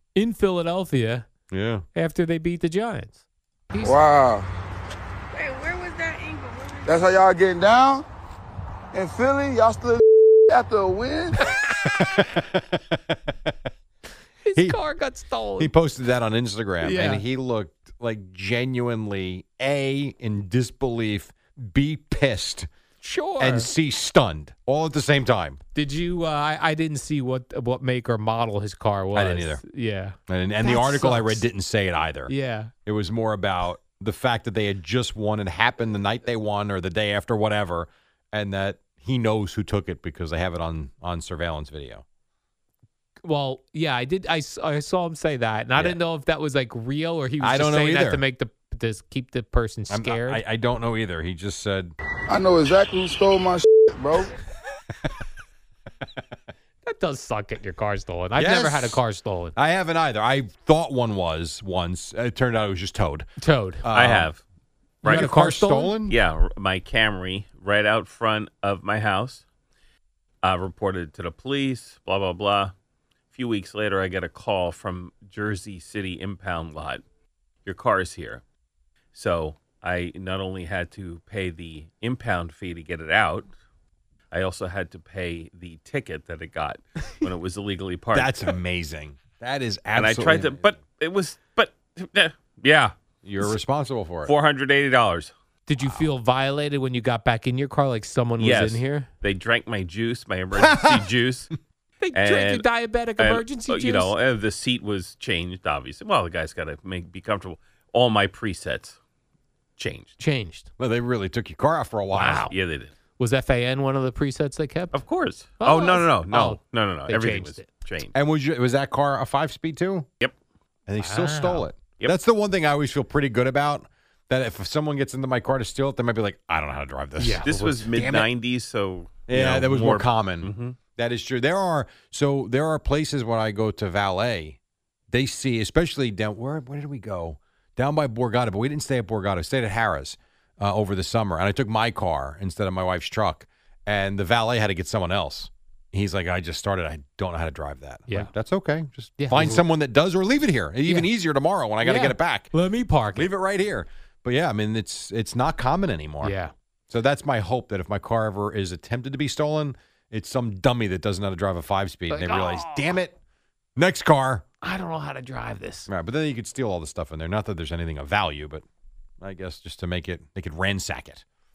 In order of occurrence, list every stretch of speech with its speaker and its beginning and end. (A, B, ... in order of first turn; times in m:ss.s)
0:00.2-0:01.3 A
0:01.5-0:01.8 B
0:01.9-0:04.0 A
0:03.8-0:04.4 C
0:05.4-0:05.8 C
0:06.8-0:08.0 C
0:08.9-0:11.4 C
0:11.4-0:12.0 A
0:12.0-0:12.6 B
0:13.1-0:13.5 B
0:14.4-0:15.7 A
0:15.6-0:22.7 B
0:16.8-0:17.2 A
0:23.0-0:23.7 A
0:23.4-0:25.6 B
0:25.7-0:31.4 A
0:29.1-0:29.6 B
0:30.3-0:32.3 B
0:32.3-0:32.7 A
0:32.8-0:42.0 B
0:43.2-0:50.4 A
0:47.4-0:48.2 B
0:49.9-0:51.9 B
0:52.3-0:54.3 C
0:56.8-0:59.5 A
0:58.4-0:59.0 B
0:59.5-1:03.3 B
1:03.4-1:03.8 A
1:03.8-1:04.3 B
1:03.9-1:04.4 D
1:05.0-1:05.3 D
1:05.0-1:06.2 B
1:05.0-1:05.9 A
1:06.0-1:09.4 D
1:10.4-1:12.7 D
1:13.3-1:17.0 D
1:17.6-1:18.4 D
1:19.1-1:23.5 D
1:24.3-1:28.5 D
1:28.1-1:30.7 B
1:29.9-1:32.9 D
1:33.2-1:34.3 B
1:34.2-1:35.3 D
1:35.7-1:39.1 A
1:38.4-1:41.5 D
1:40.6-1:41.0 B
1:42.0-1:44.1 A
1:42.1-1:42.6 D
1:43.2-1:49.0 D
1:49.8-1:50.2 D
1:50.2-1:50.7 A
1:50.8-1:52.5 B
1:52.1-1:52.5 A
1:52.5-1:52.9 D
1:53.2-1:55.0 A
1:54.9-1:58.1 D
1:55.6-1:57.7 A
1:58.1-2:00.1 B
2:00.9-2:08.2 B
2:01.0-2:01.6 A
2:07.2-2:08.2 A
2:07.4-2:10.8 D
2:09.3-2:14.6 B
2:15.1-2:32.5 B
2:29.2-2:29.6 A
2:31.8-2:33.3 A
2:33.1-2:36.3 B
2:36.2-2:36.5 A
2:36.9-2:43.1 B
2:42.1-2:42.9 A
2:43.8-2:44.4 B
2:44.6-2:45.9 A
2:45.9-2:48.6 B
2:49.2-2:51.2 B